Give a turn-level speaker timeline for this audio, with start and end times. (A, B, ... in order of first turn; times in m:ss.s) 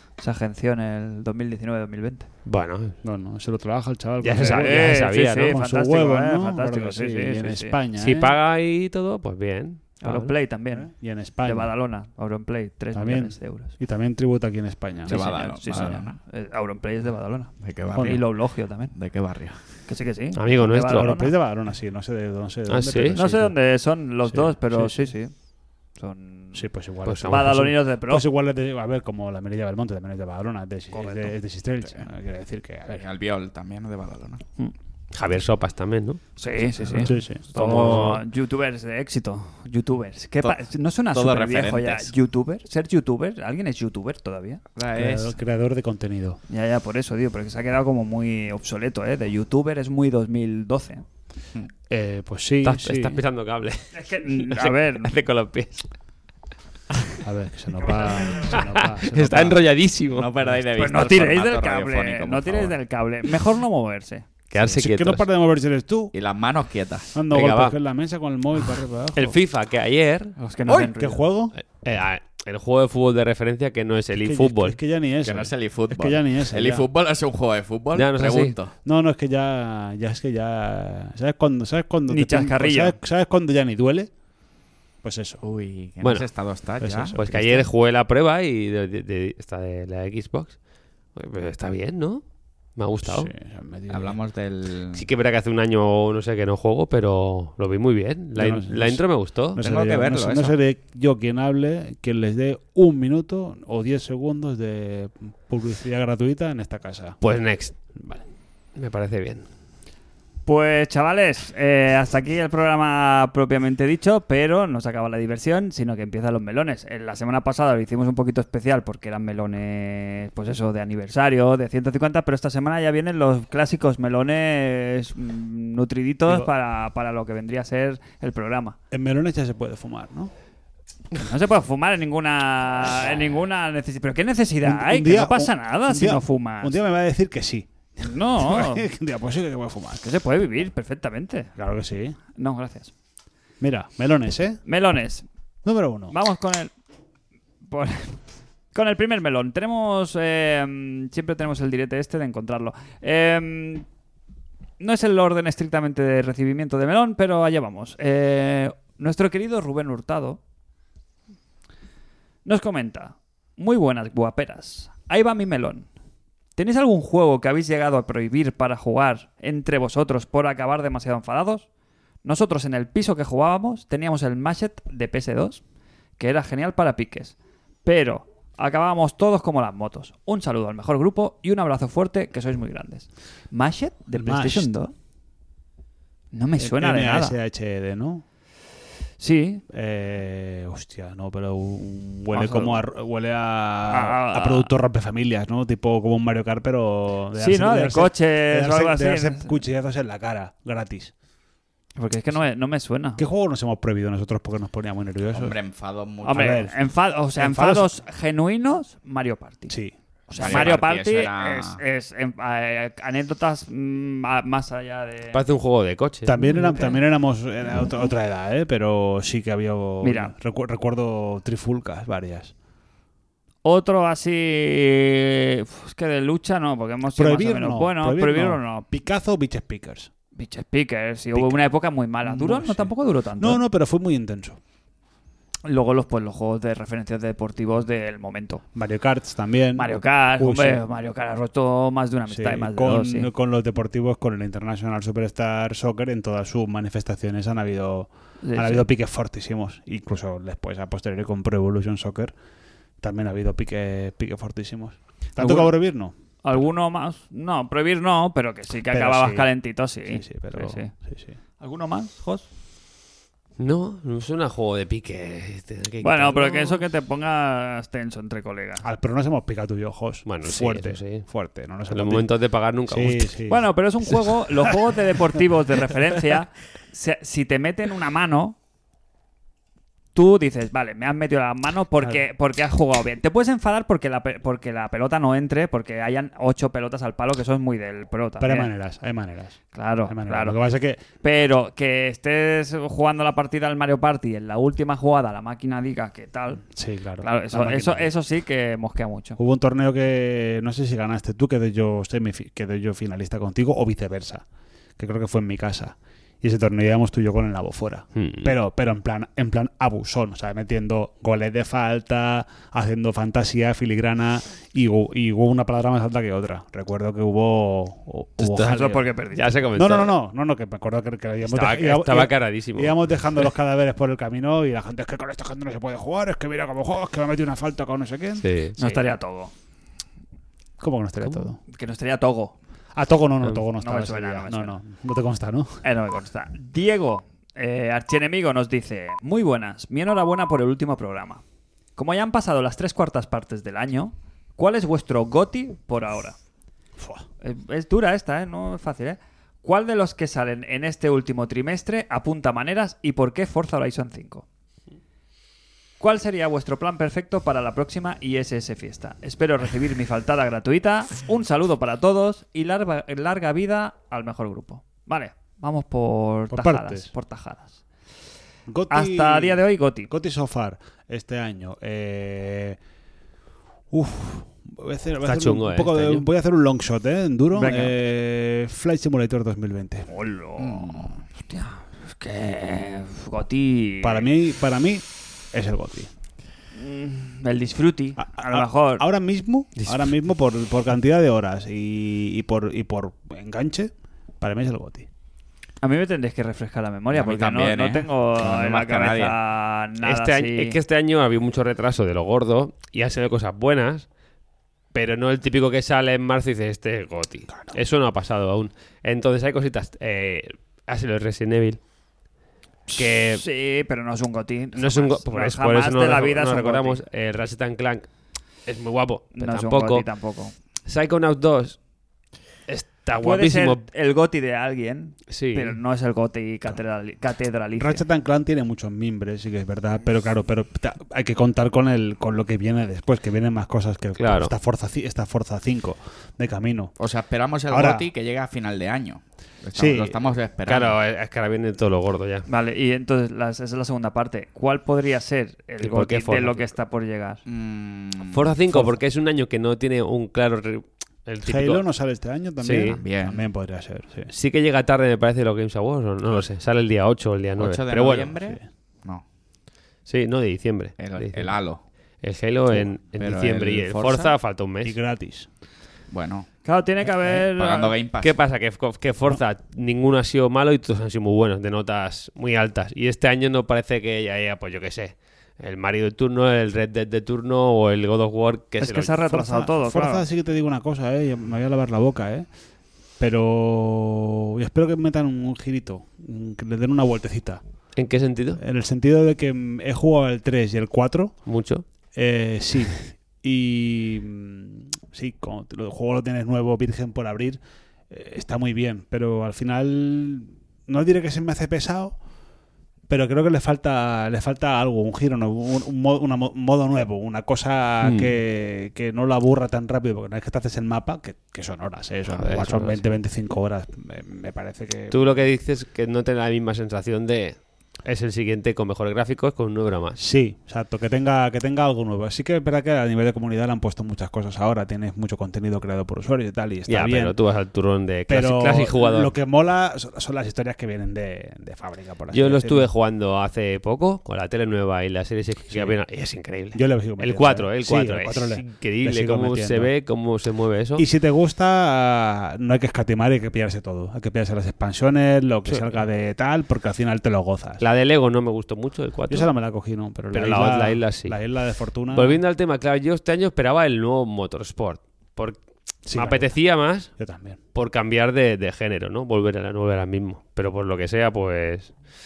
0:00.2-0:02.3 A
0:02.5-0:03.0 B
0:03.0-0:08.4 C
0:04.2-0:05.6 B
0:04.4-0:07.8 A
0:08.0-0:10.3 B
0:10.0-0:13.8 A
0:10.7-0:11.7 C
0:12.9-0:16.0 C
0:15.1-0:18.9 A
0:15.1-0:16.2 D
0:17.6-0:19.6 D
0:17.9-0:18.2 C
0:19.9-0:21.3 A
0:20.4-0:21.2 B
0:20.9-0:23.6 C
0:22.7-0:23.2 B
0:23.1-0:25.3 A
0:24.2-0:25.1 C
0:26.0-0:26.6 A
0:26.5-0:33.0 C
0:27.1-0:27.6 B
0:27.3-0:28.3 A
0:31.0-0:31.3 A
0:32.9-0:34.4 D
0:35.1-0:36.2 B
0:36.4-0:44.6 A
0:36.8-0:38.2 B
0:37.0-0:37.5 C
0:41.1-0:42.1 D
0:44.8-0:45.3 D
0:44.9-0:46.4 C
0:46.5-0:51.0 A
0:51.9-0:53.2 C
0:52.6-0:55.9 B
0:53.9-0:55.1 A
0:57.2-0:59.6 C
0:58.4-1:00.3 B
1:00.1-1:02.8 D
1:00.7-1:04.3 A
1:04.5-1:05.2 B
1:04.6-1:06.1 C
1:06.1-1:07.2 D
1:07.1-1:09.4 C
1:07.3-1:07.8 B
1:09.2-1:10.4 B
1:10.4-1:11.3 A
1:10.6-1:10.9 D
1:11.0-1:11.6 C
1:11.6-1:14.8 B
1:14.2-1:16.9 C
1:15.2-1:18.7 D
1:17.9-1:18.6 B
1:18.8-1:24.1 C
1:22.1-1:23.0 A
1:25.0-1:25.4 C
1:25.4-1:27.7 D
1:26.0-1:26.3 B
1:26.8-1:27.2 C
1:27.1-1:30.6 B
1:31.2-1:32.2 B
1:32.8-1:33.3 B
1:33.0-1:34.2 C
1:33.9-1:35.1 D
1:34.9-1:39.6 B
1:38.4-1:47.2 C
1:39.6-1:40.6 D
1:47.2-1:47.8 B
1:48.0-1:48.2 C
1:48.8-1:49.4 B
1:50.5-2:08.8 A
2:08.9-2:10.3 C
2:11.2-2:16.8 A
2:14.6-2:20.0 C
2:18.0-2:18.9 A
2:20.0-2:21.5 A
2:21.6-2:22.2 C
2:22.4-2:22.9 A
2:23.6-2:24.6 C
2:24.6-2:25.3 A
2:25.6-2:26.2 C
2:26.1-2:26.7 A
2:27.6-2:28.2 A
2:28.7-2:33.9 A
2:34.8-2:40.4 A
2:42.4-2:45.9 A
2:46.6-2:51.7 A
2:52.2-2:55.6 A
2:56.2-3:04.9 A
3:04.2-3:04.7 C
3:06.3-3:07.4 A
3:06.6-3:08.2 C
3:09.2-3:09.6 A
3:09.7-3:21.1 C
3:12.3-3:12.8 A
3:13.9-3:14.7 A
3:17.4-3:19.6 A
3:22.0-3:23.2 A
3:23.2-3:25.6 C
3:25.3-3:26.6 D
3:26.2-3:29.8 A
3:26.3-3:26.8 C
3:27.4-3:27.9 C
3:29.7-3:30.8 C
3:30.3-3:35.4 A
3:30.4-3:31.8 D
3:35.3-3:36.4 B
3:36.2-3:42.5 C
3:36.4-3:37.0 A
3:40.0-3:40.3 A
3:43.6-3:48.9 A
3:47.2-3:50.1 C
3:50.4-3:53.6 A
3:51.3-3:51.6 C
3:52.2-3:54.6 C
3:55.6-3:58.6 A
3:58.7-4:00.8 C
3:59.8-4:03.3 A
4:02.3-4:12.3 C
4:08.4-4:08.9 A
4:13.0-4:16.1 C
4:15.4-4:15.8 A
4:16.4-4:20.9 A
4:18.9-4:19.5 C
4:20.1-4:21.4 C
4:21.6-4:22.5 A
4:23.6-4:26.8 B
4:26.0-4:28.8 A
4:28.8-4:32.3 C
4:30.3-4:31.3 B
4:31.9-4:33.3 B
4:32.9-4:34.8 C
4:33.5-4:38.6 A
4:40.2-4:48.7 A
4:48.4-4:51.0 C
4:49.7-4:50.6 A
4:51.2-4:56.6 A
4:56.6-4:58.1 C
4:57.2-4:59.4 A
4:59.4-5:04.4 C
5:05.0-5:19.0 C
5:08.2-5:08.5 B
5:18.4-5:20.1 B
5:18.6-5:19.5 A
5:19.7-5:28.4 C
5:21.4-5:23.5 B
5:28.4-5:29.0 B
5:28.8-5:29.5 A
5:30.8-5:31.6 C
5:31.7-5:32.6 A
5:32.9-5:35.8 C
5:33.8-5:34.8 A
5:35.8-5:41.4 A
5:42.0-5:46.4 A
5:47.0-5:47.2 C
5:47.4-5:54.4 A
5:56.0-6:07.8 A
6:06.5-6:07.1 C
6:08.7-6:12.8 C
6:08.9-6:10.1 A
6:13.9-6:20.1 C
6:15.2-6:16.2 B
6:17.5-6:17.9 A
6:20.1-6:24.3 A
6:20.6-6:21.2 D
6:24.0-6:26.1 C
6:26.7-6:29.0 A
6:28.2-6:35.1 C
6:29.8-6:30.1 B
6:35.8-6:40.8 A
6:37.1-6:39.4 D
6:40.0-6:44.1 B
6:44.9-6:51.8 B
6:53.0-6:53.4 B
6:53.2-6:57.0 A
6:54.8-6:58.1 B
6:58.7-7:00.1 B
6:59.4-7:00.5 A
7:00.9-7:01.8 B
7:02.7-7:03.8 B
7:03.2-7:08.0 A
7:05.3-7:05.8 B
7:07.8-7:16.9 C
7:14.2-7:14.5 B
7:17.0-7:21.0 D
7:17.7-7:18.1 C
7:19.8-7:20.2 C
7:20.7-7:22.5 B
7:22.5-7:27.4 A
7:25.8-7:26.6 B
7:27.5-7:28.5 D
7:28.2-7:31.8 B
7:28.7-7:29.0 C
7:31.4-7:34.3 C
7:32.6-7:33.0 B
7:32.9-7:33.4 D
7:34.3-7:38.3 B
7:37.6-7:39.2 D
7:38.4-7:38.7 C
7:40.1-7:41.5 B
7:41.0-7:41.8 D
7:42.2-7:45.0 B
7:43.2-7:44.4 D
7:44.8-7:45.5 C
7:46.1-7:46.5 D
7:46.6-7:48.0 A
7:47.3-7:48.4 D
7:48.2-7:59.2 B
7:58.8-8:00.2 A
7:59.3-8:02.5 C
8:03.2-8:07.6 C
8:08.0-8:08.6 B
8:08.6-8:11.4 C
8:11.5-8:11.8 B
8:12.1-8:22.2 C
8:23.1-8:35.3 C
8:28.0-8:28.3 B
8:32.3-8:33.2 B
8:35.1-8:40.2 B
8:40.2-8:47.4 C
8:46.9-8:49.3 B
8:48.3-8:52.9 C
8:52.3-9:01.0 B
8:55.7-8:56.0 C
8:56.7-8:59.9 C
9:01.0-9:07.8 C
9:07.8-9:09.5 B
9:09.3-9:12.4 C
9:10.3-9:11.4 B
9:12.1-9:17.1 B
9:16.1-9:16.5 C
9:17.2-9:17.6 C
9:17.7-9:21.9 B